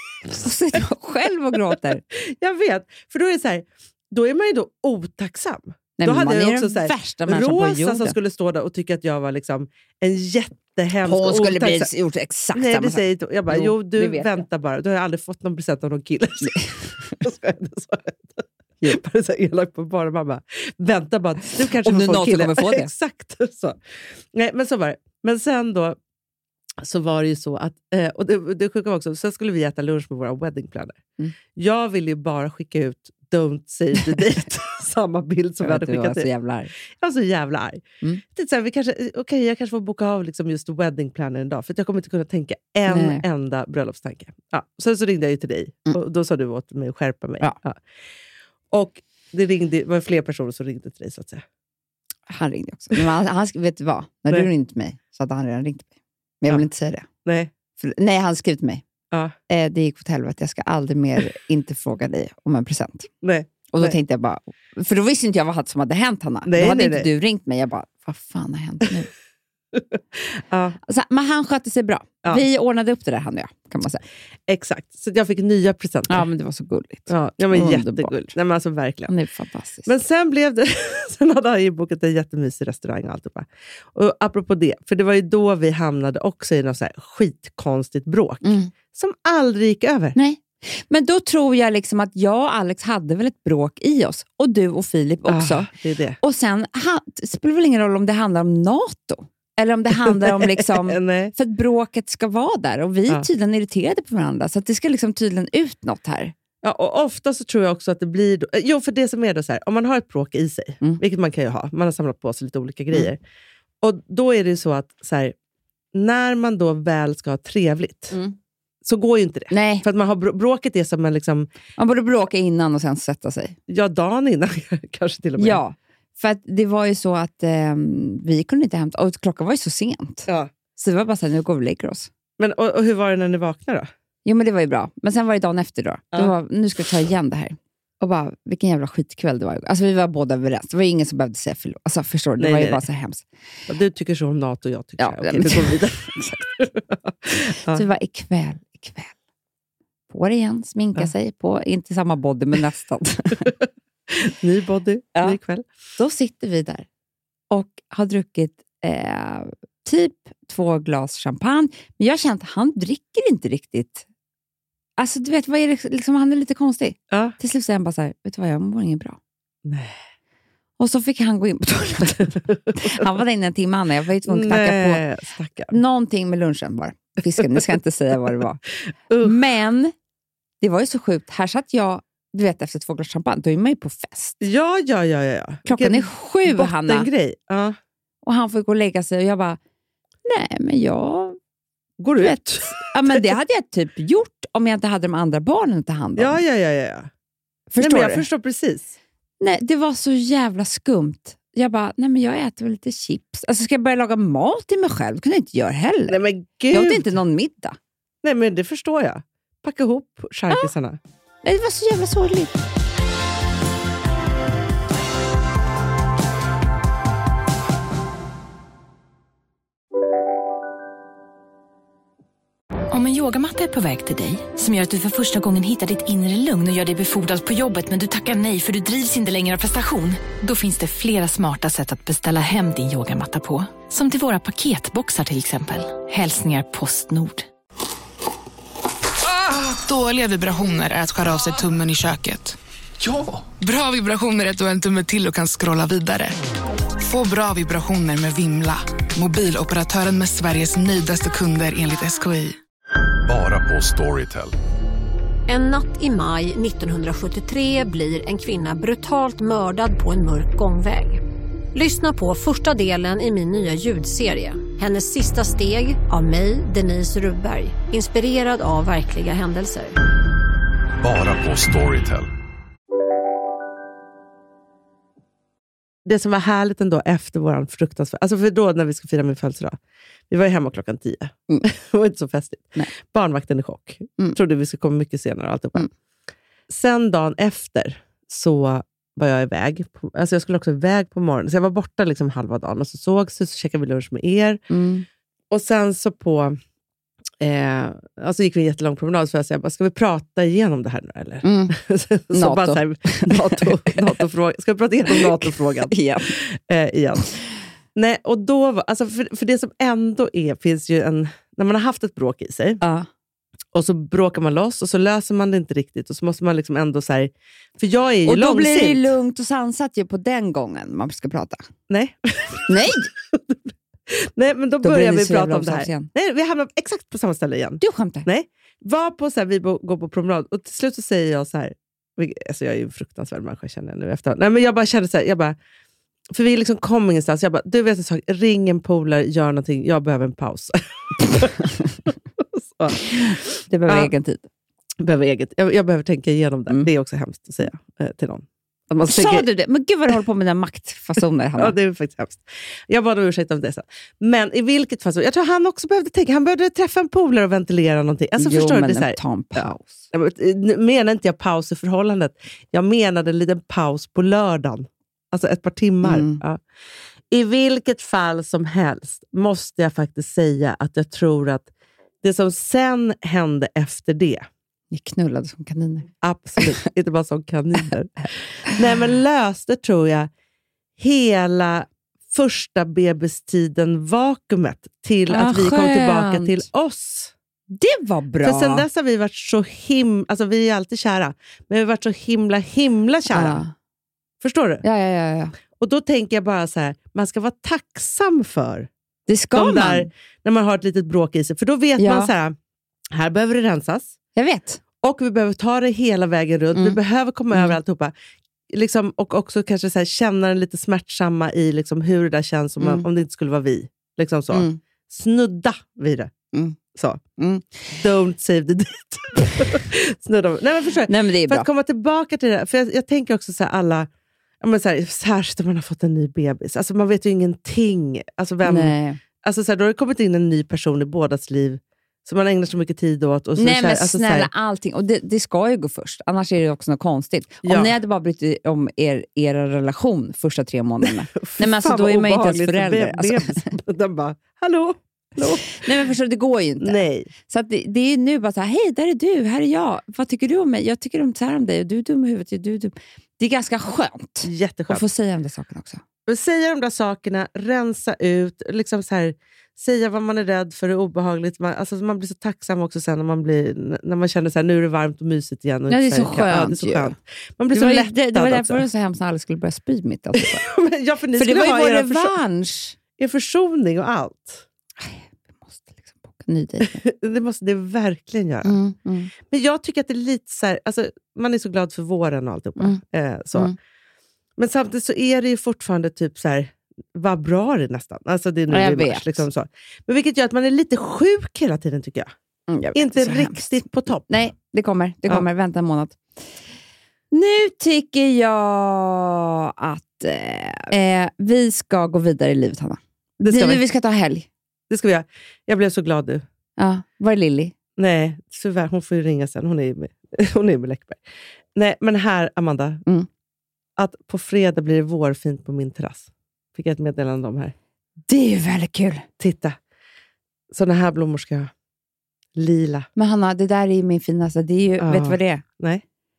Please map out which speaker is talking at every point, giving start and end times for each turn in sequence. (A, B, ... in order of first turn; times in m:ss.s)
0:00.3-0:02.0 A
0:02.2-0:11.9 B
0:06.0-0:08.1 A
0:11.0-0:14.4 A
0:12.5-0:23.8 B
0:21.8-0:22.9 A
0:24.3-0:26.0 B
0:26.8-0:31.0 B
0:31.5-0:36.3 B
0:35.6-0:36.7 A
0:37.0-0:37.8 B
0:38.3-0:47.8 B
0:42.9-0:43.2 A
0:48.7-0:51.4 B
0:52.3-0:55.9 A
0:56.4-0:57.0 A
0:57.2-0:57.5 B
0:57.8-0:58.8 A
0:59.5-1:03.1 A
1:03.2-1:03.9 B
1:03.7-1:09.1 A
1:06.4-1:07.1 B
1:09.7-1:10.8 B
1:10.9-1:14.0 A
1:14.5-1:16.2 B
1:16.1-1:18.3 A
1:17.1-1:19.1 B
1:19.1-1:19.9 A
1:19.8-1:30.2 B
1:28.4-1:28.7 A
1:30.2-1:35.7 A
1:35.2-1:36.2 B
1:36.2-1:46.3 A
1:40.0-1:41.3 B
1:46.6-1:53.2 B
1:53.8-1:55.3 B
1:55.9-1:58.2 B
1:58.8-2:01.5 B
1:59.5-1:59.8 A
2:01.8-2:03.6 A
2:03.7-2:05.6 B
2:05.4-2:10.3 A
2:10.8-2:12.1 A
2:12.4-2:13.9 B
2:14.2-2:23.2 A
2:22.4-2:22.8 B
2:23.7-2:27.8 B
2:25.0-2:26.5 A
2:27.3-2:29.1 A
2:30.1-2:33.5 A
2:34.1-2:35.6 B
2:36.0-2:36.8 A
2:37.5-2:44.0 A
2:45.0-2:49.2 A
2:47.1-2:47.4 B
2:49.6-2:50.0 B
2:50.8-2:55.0 A
2:54.3-2:55.8 B
2:55.7-2:58.6 A
2:59.1-2:59.4 B
2:59.2-2:59.9 A
3:00.6-3:04.4 A
3:04.4-3:07.8 B
3:05.7-3:07.1 A
3:08.2-3:09.6 A
3:10.2-3:11.4 A
3:12.0-3:13.3 B
3:12.2-3:16.4 A
3:16.2-3:17.1 B
3:17.7-3:18.2 A
3:17.8-3:19.0 B
3:19.4-3:26.2 A
3:26.1-3:27.1 B
3:26.7-3:27.8 A
3:28.2-3:31.0 B
3:31.4-3:32.5 A
3:42.9-3:57.5 C
3:59.3-4:02.6 D
4:03.5-4:06.4 D
4:07.0-4:12.6 D
4:13.2-4:14.5 E
4:15.5-4:21.2 F
4:21.7-4:29.9 F
4:31.0-4:32.3 E
4:36.0-4:39.8 B
4:40.3-4:45.9 B
4:46.7-4:54.6 B
4:54.7-4:55.0 A
4:55.5-4:56.6 B
4:57.4-5:07.4 B
5:01.4-5:01.7 A
5:02.3-5:04.0 A
5:05.1-5:06.3 A
5:07.9-5:12.8 B
5:12.8-5:13.1 A
5:13.7-5:19.1 B
5:18.2-5:21.6 A
5:21.9-5:35.6 B
5:22.7-5:23.1 A
5:24.8-5:26.1 A
5:27.8-5:28.2 A
5:36.3-5:44.1 B
5:43.0-5:44.5 A
5:45.0-5:49.4 B
5:49.0-5:51.7 A
5:51.6-6:06.6 B
5:58.4-6:00.0 A
6:06.0-6:06.4 A
6:07.3-6:11.7 B
6:12.2-6:14.4 B
6:14.9-6:16.1 A
6:16.2-6:20.3 B
6:21.0-6:27.3 B
6:25.3-6:26.6 A
6:27.7-6:28.8 A
6:28.4-6:33.6 B
6:33.3-6:33.7 A
6:34.4-6:34.8 B
6:34.8-6:35.5 A
6:35.8-6:38.9 B
6:39.3-6:40.1 A
6:39.5-6:42.6 B
6:42.0-6:42.3 A
6:43.1-6:44.1 B
6:44.4-6:44.8 A
6:45.0-6:48.1 B
6:48.7-6:56.3 B
6:52.8-6:53.0 A
6:54.5-6:54.8 A
6:56.9-6:57.2 B
6:57.4-6:57.9 A
6:57.9-7:04.1 B
7:01.1-7:01.7 A
7:04.6-7:14.5 B
7:08.6-7:09.2 A
7:13.6-7:23.7 A
7:17.6-7:17.9 B
7:21.0-7:26.0 B
7:25.4-7:27.0 A
7:26.8-7:27.3 B
7:27.5-7:36.0 A
7:34.4-7:35.0 B
7:36.3-7:48.8 B
7:45.9-7:47.1 A
7:47.7-7:50.6 A
7:50.4-7:52.4 B
7:51.4-7:53.0 A
7:53.2-7:54.6 B
7:55.0-7:57.0 A
7:56.8-7:58.7 B
7:58.6-7:59.3 A
7:59.5-8:03.7 B
8:04.6-8:12.3 B
8:08.7-8:09.4 A
8:12.7-8:16.2 A
8:12.9-8:14.4 B
8:17.3-8:24.5 A
8:23.4-8:23.8 B
8:24.9-8:26.4 B
8:26.8-8:27.7 A
8:28.0-8:31.2 B
8:31.7-8:33.0 B
8:34.0-8:37.7 B
8:38.3-8:39.2 A
8:39.4-8:39.8 B
8:40.7-8:41.7 B
8:42.6-8:43.1 B
8:43.2-8:45.6 A
8:45.0-8:46.0 B